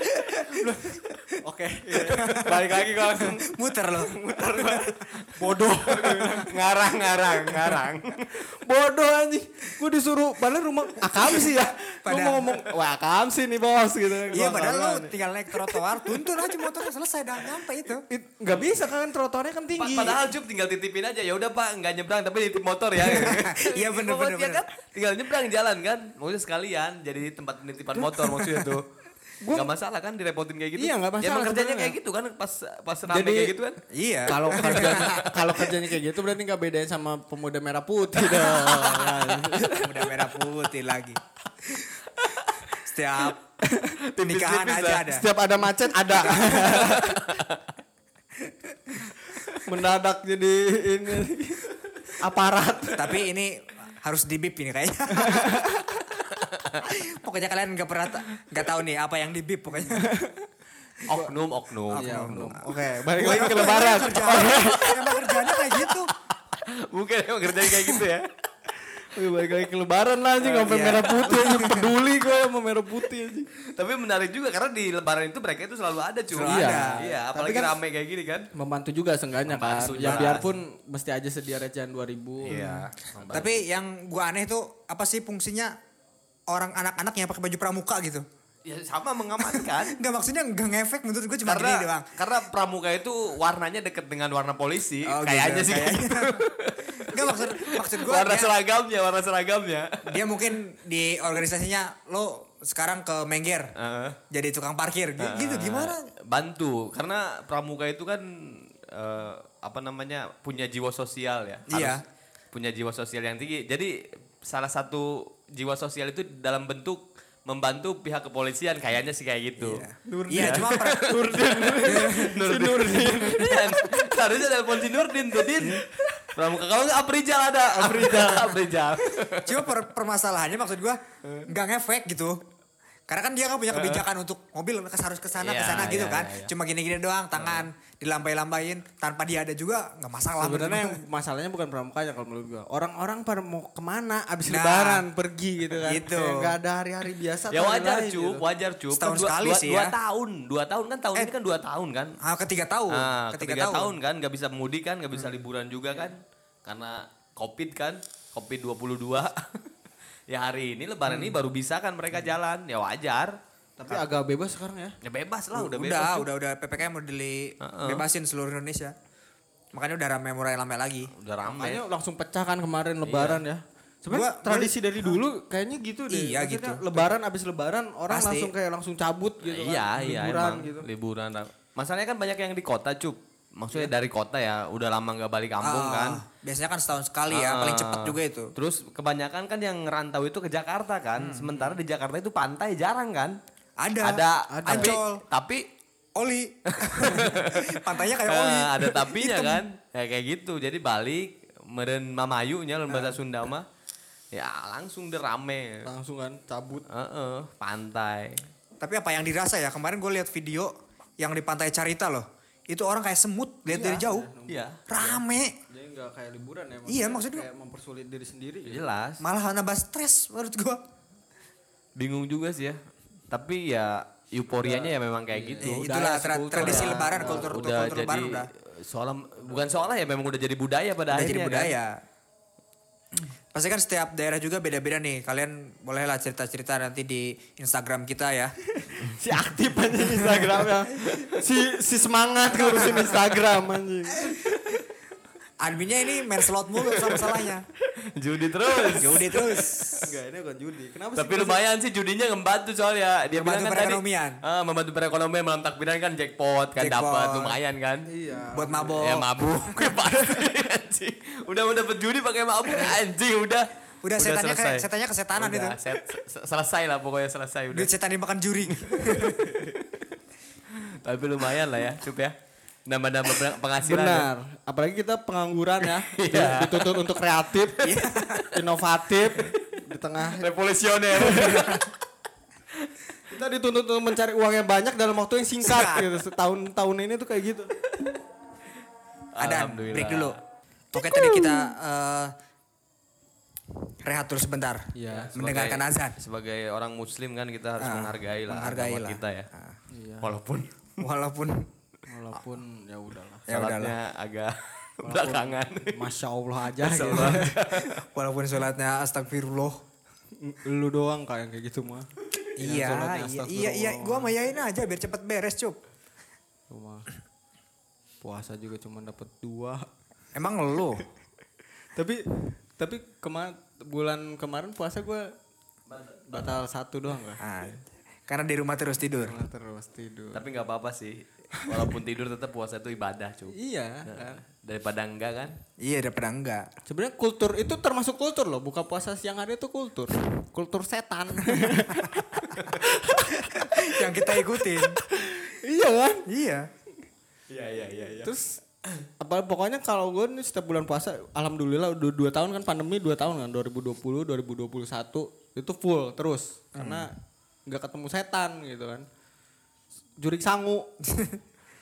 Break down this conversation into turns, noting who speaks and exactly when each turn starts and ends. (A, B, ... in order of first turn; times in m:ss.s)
0:00.3-0:01.1 A
0:00.3-0:06.6 B
0:02.1-0:02.6 A
0:02.4-0:02.6 C
0:03.2-0:05.0 A
0:05.6-0:08.4 C
0:07.3-0:16.5 B
0:11.0-0:12.6 A
0:14.3-0:18.0 A
0:18.1-0:20.2 B
0:19.8-0:28.9 C
0:23.0-0:24.7 A
0:28.0-0:28.7 B
0:29.4-0:29.7 B
0:29.5-0:33.8 C
0:30.8-0:32.0 B
0:33.1-0:33.6 B
0:33.9-0:35.2 A
0:34.3-0:40.1 B
0:34.6-0:35.7 C
0:38.6-0:39.2 A
0:39.8-0:41.2 A
0:42.7-0:43.4 A
0:43.6-0:44.0 B
0:44.1-0:45.1 C
0:44.2-0:45.3 A
0:45.1-0:47.3 B
0:46.2-0:47.0 A
0:46.5-0:47.6 C
0:49.7-0:53.2 B
0:53.0-0:55.6 A
0:55.2-0:56.1 B
0:56.5-0:56.8 C
0:56.8-1:00.1 A
0:59.9-1:00.5 B
1:01.1-1:01.3 B
1:01.1-1:02.5 C
1:01.9-1:06.1 A
1:01.9-1:05.0 B
1:04.3-1:06.0 C
1:06.5-1:08.3 C
1:08.8-1:13.5 B
1:10.4-1:11.3 C
1:10.6-1:11.9 A
1:13.8-1:18.5 C
1:16.3-1:17.0 A
1:16.4-1:17.8 B
1:18.5-1:23.4 B
1:19.5-1:20.5 C
1:20.0-1:20.4 A
1:22.4-1:23.6 C
1:22.5-1:25.7 A
1:26.5-1:28.2 A
1:28.7-1:30.0 C
1:29.5-1:32.1 A
1:31.5-1:40.2 C
1:35.1-1:36.4 A
1:37.1-1:38.5 A
1:40.1-1:43.7 A
1:43.8-1:44.2 C
1:44.3-1:46.1 A
1:45.2-1:52.0 C
1:51.7-1:52.0 A
1:52.5-1:59.8 C
1:59.6-2:01.2 A
2:00.1-2:04.1 B
2:00.4-2:09.7 C
2:01.8-2:02.3 A
2:05.4-2:05.9 B
2:07.7-2:08.6 B
2:09.5-2:12.4 A
2:13.1-2:21.0 A
2:13.7-2:14.0 C
2:15.4-2:16.5 C
2:17.4-2:17.7 C
2:20.4-2:28.4 B
2:24.5-2:25.0 A
2:25.8-2:26.6 A
2:27.5-2:32.2 C
2:28.9-2:30.0 A
2:32.2-2:33.9 A
2:32.9-2:39.3 C
2:40.3-2:43.3 C
2:41.1-2:41.4 A
2:43.8-2:45.0 B
2:43.9-2:44.2 C
2:45.0-2:46.3 C
2:45.6-2:48.9 A
2:47.6-2:48.0 C
2:49.7-2:51.1 A
2:51.2-2:51.8 C
2:51.5-3:00.9 B
2:53.0-2:53.4 C
2:54.1-2:55.2 A
2:56.1-2:57.1 A
2:58.1-2:58.5 A
2:59.4-3:06.2 C
3:05.6-3:08.5 A
3:07.3-3:13.4 C
3:11.2-3:11.8 A
3:13.8-3:15.2 A
3:14.0-3:15.7 C
3:14.5-3:15.0 B
3:16.2-3:19.6 A
3:16.7-3:23.7 C
3:22.9-3:23.2 A
3:24.3-3:25.8 C
3:25.8-3:26.8 B
3:26.9-3:28.4 C
3:28.8-3:34.3 A
3:33.7-3:38.9 B
3:34.5-3:34.8 C
3:34.9-3:35.5 A
3:36.9-3:37.5 A
3:38.7-3:39.2 C
3:39.2-3:40.8 A
3:42.0-3:42.8 C
3:43.3-3:45.9 C
3:44.6-3:47.7 B
3:45.6-3:48.5 A
3:46.6-3:51.7 C
3:51.1-3:51.9 A
3:53.5-3:58.5 A
3:58.8-4:04.8 B
4:02.5-4:03.2 A
4:02.7-4:03.2 C
4:05.6-4:07.7 A
4:07.0-4:07.2 C
4:08.2-4:10.1 C
4:08.8-4:09.2 B
4:09.0-4:10.2 A
4:10.0-4:11.6 B
4:11.2-4:18.1 C
4:13.3-4:14.4 A
4:16.8-4:17.6 A
4:18.1-4:19.1 B
4:18.5-4:20.0 A
4:19.0-4:27.9 C
4:24.0-4:25.8 A
4:27.7-4:29.5 A
4:28.9-4:29.9 C
4:30.8-4:32.4 C
4:32.9-4:34.3 C
4:33.8-4:40.5 B
4:35.8-4:37.0 C
4:37.8-4:38.5 A
4:40.4-4:41.9 C
4:41.1-4:41.6 B
4:41.6-4:41.8 A
4:43.3-4:47.7 B
4:45.6-4:46.2 A
4:49.4-4:50.4 C
4:49.4-4:50.4 A
4:50.9-4:52.3 A
4:54.0-4:54.8 A
4:55.0-4:55.3 B
4:55.3-4:56.2 A
4:55.4-4:59.5 C
4:57.8-4:59.8 A
4:59.9-5:00.3 B
5:00.2-5:01.0 C
5:01.0-5:01.7 A
5:02.1-5:03.4 B
5:03.5-5:04.0 A
5:03.5-5:06.1 C
5:05.0-5:07.8 B
5:06.8-5:08.0 C
5:06.9-5:07.5 A
5:08.1-5:09.8 A
5:10.4-5:12.1 B
5:12.6-5:15.8 A
5:12.6-5:14.4 B
5:16.7-5:17.0 B
5:18.2-5:19.8 B
5:20.4-5:21.0 A
5:22.0-5:25.3 B
5:25.9-5:26.5 C
5:26.3-5:27.4 B
5:27.4-5:29.4 A
5:29.2-5:30.5 B
5:30.3-5:35.6 C
5:33.5-5:34.4 B
5:35.8-5:36.7 A
5:36.9-5:46.2 B
5:43.4-5:45.0 A
5:46.3-5:46.7 A
5:47.5-5:48.3 C
5:48.2-5:48.6 B
5:49.2-5:57.1 B
5:56.8-5:57.1 A
5:57.7-5:59.1 B
6:00.2-6:00.9 B